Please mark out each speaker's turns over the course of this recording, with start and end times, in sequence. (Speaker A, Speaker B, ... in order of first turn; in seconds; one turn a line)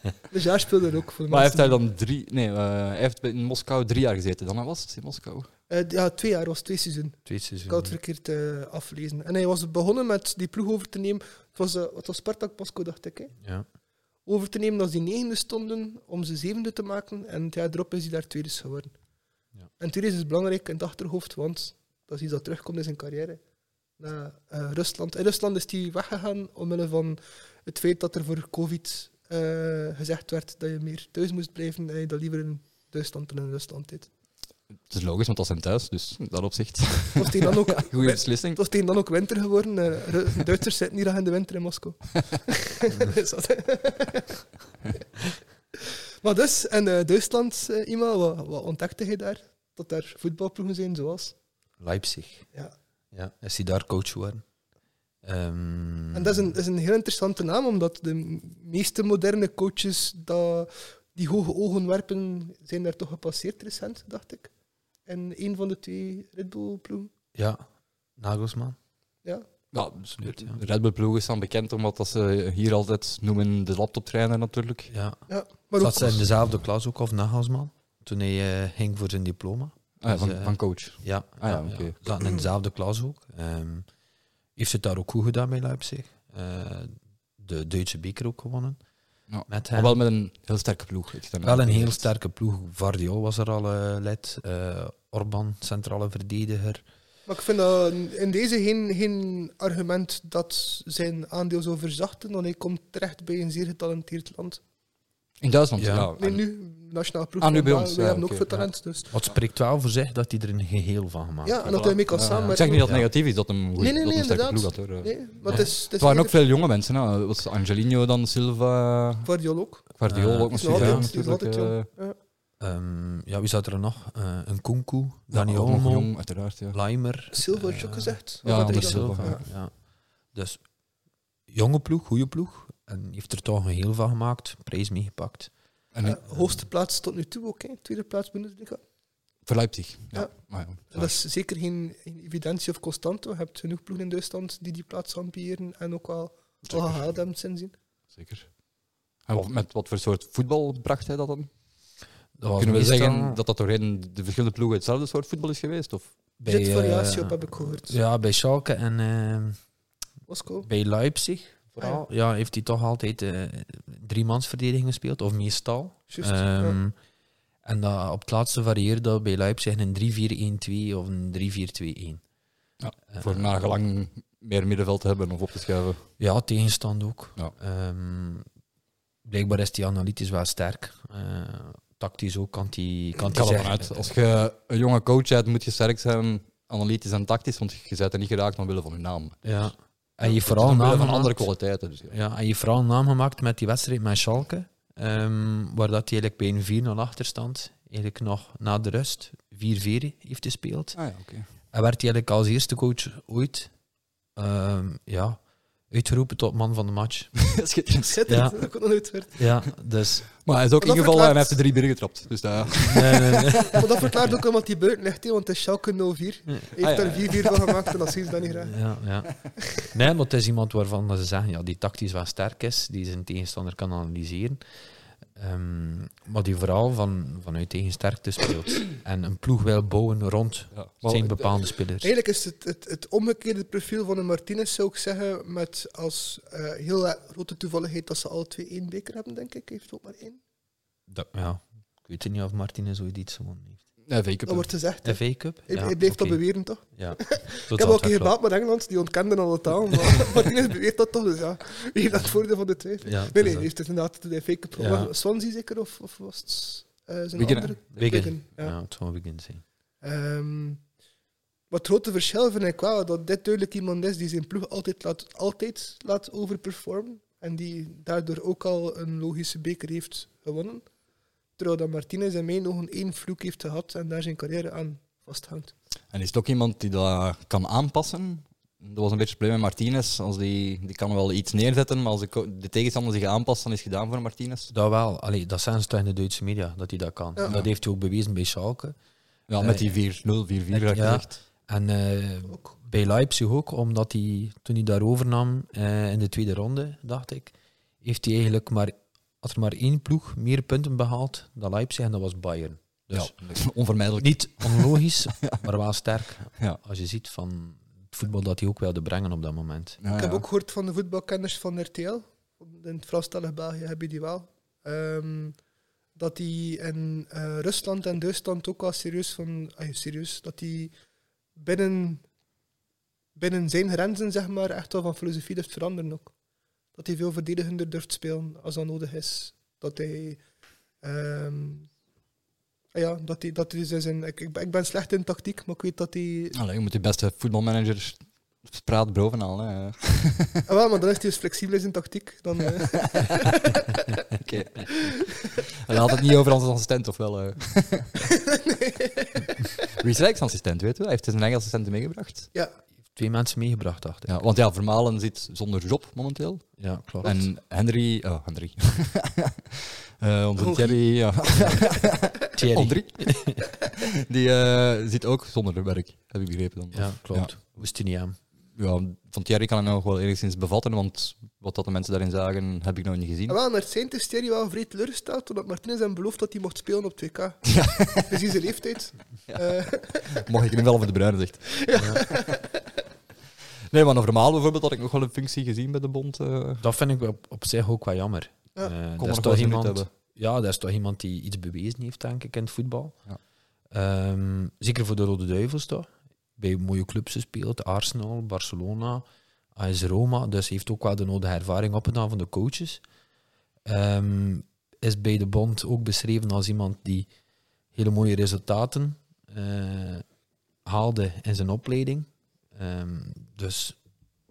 Speaker A: 0.3-1.8
Speaker B: 1.3-5.5
Speaker A: 5.7-13.3
Speaker C: 7.2-8.0
Speaker C: 13.4-13.7
Speaker A: 14.2-18.9
Speaker A: 19.8-23.4
Speaker A: 24.0-34.1
Speaker B: 34.9-38.6
Speaker A: 37.2-44.4
Speaker A: 45.8-51.3
Speaker C: 51.8-52.5
Speaker C: 53.1-54.4
Speaker C: 55.2-56.4
Speaker A: 56.1-64.5
Speaker A: 65.1-67.1
Speaker C: 67.3-67.6
Speaker C: 68.2-68.8
Speaker B: 69.7-74.9
Speaker C: 70.2-70.6
Speaker C: 74.9-75.2
Speaker A: 75.3-76.2
Speaker C: 75.8-83.9
Speaker B: 80.0-82.0
Speaker C: 84.5-88.8
Speaker B: 89.3-92.0
Speaker C: 89.5-90.0
Speaker C: 91.4-96.8
Speaker A: 97.3-104.6
Speaker B: 105.4-106.4
Speaker C: 105.8-106.1
Speaker A: 106.2-109.1
Speaker B: 107.4-108.7
Speaker C: 109.1-111.7
Speaker A: 111.4-112.9
Speaker B: 111.6-119.3
Speaker C: 112.8-113.0
Speaker A: 113.8-116.3
Speaker A: 119.2-119.8
Speaker B: 119.9-121.9
Speaker C: 120.1-121.1
Speaker A: 120.5-122.2
Speaker C: 122.6-126.1
Speaker B: 125.3-126.8
Speaker C: 126.7-129.7
Speaker A: 127.3-129.4
Speaker B: 128.4-129.4
Speaker C: 130.3-130.6
Speaker C: 131.5-135.5
Speaker B: 135.9-136.2
Speaker A: 136.0-138.8
Speaker B: 139.4-141.2
Speaker A: 140.9-147.7
Speaker B: 146.7-147.0
Speaker B: 148.1-148.5
Speaker B: 149.3-151.5
Speaker C: 152.4-153.4
Speaker B: 152.6-156.1
Speaker C: 156.4-159.6
Speaker A: 156.4-158.0
Speaker A: 160.3-160.7
Speaker C: 160.6-166.9
Speaker A: 161.8-162.0
Speaker A: 166.1-166.8
Speaker C: 167.6-172.2
Speaker B: 172.8-176.0
Speaker C: 173.1-173.5
Speaker C: 176.2-178.4
Speaker C: 179.2-184.1
Speaker B: 183.3-189.4
Speaker C: 189.4-191.5
Speaker B: 190.4-192.2
Speaker C: 192.1-201.0
Speaker B: 201.0-201.4
Speaker C: 201.7-203.7
Speaker C: 204.3-205.4
Speaker C: 205.9-207.3
Speaker B: 207.3-208.2
Speaker A: 208.0-209.4
Speaker C: 208.3-208.6
Speaker C: 209.3-210.3
Speaker B: 210.4-213.9
Speaker A: 210.8-211.6
Speaker C: 212.8-213.8
Speaker A: 213.7-218.8
Speaker B: 216.8-218.1
Speaker C: 218.5-224.6
Speaker C: 225.3-232.1
Speaker B: 230.7-231.3
Speaker A: 231.1-240.4
Speaker C: 241.1-243.8
Speaker B: 244.1-244.7
Speaker A: 244.4-258.8
Speaker C: 245.0-248.3
Speaker C: 253.0-253.7
Speaker C: 254.8-255.1
Speaker B: 257.4-258.3
Speaker C: 258.0-259.6
Speaker A: 260.0-260.8
Speaker A: 261.7-270.8
Speaker A: 271.6-275.7
Speaker B: 276.1-284.7
Speaker C: 284.7-288.9
Speaker B: 289.5-291.4
Speaker C: 289.6-289.9
Speaker C: 290.7-303.3
Speaker A: 292.5-292.7
Speaker B: 303.1-305.6
Speaker C: 304.2-310.0
Speaker B: 310.0-310.4
Speaker A: 310.1-315.6
Speaker A: 316.1-320.9
Speaker A: 321.6-322.2
Speaker A: 323.4-326.3
Speaker A: 326.9-330.4
Speaker A: 331.0-331.9
Speaker A: 332.9-336.6
Speaker B: 336.5-340.6
Speaker A: 340.7-344.1
Speaker B: 342.9-343.5
Speaker B: 344.4-348.1
Speaker A: 344.9-346.2
Speaker A: 348.2-349.6
Speaker B: 349.8-352.5
Speaker C: 353.1-354.3
Speaker B: 354.3-356.6
Speaker C: 356.8-357.4
Speaker B: 357.2-367.7
Speaker A: 360.6-360.9
Speaker C: 362.5-363.6
Speaker C: 366.9-368.4
Speaker B: 368.8-373.6
Speaker A: 373.5-380.4
Speaker B: 377.6-378.4
Speaker B: 380.2-381.9
Speaker A: 381.7-382.8
Speaker B: 383.9-386.8
Speaker C: 386.8-393.2
Speaker B: 389.2-390.1
Speaker C: 393.9-403.0
Speaker C: 403.8-407.3
Speaker C: 407.9-410.2
Speaker C: 410.8-414.0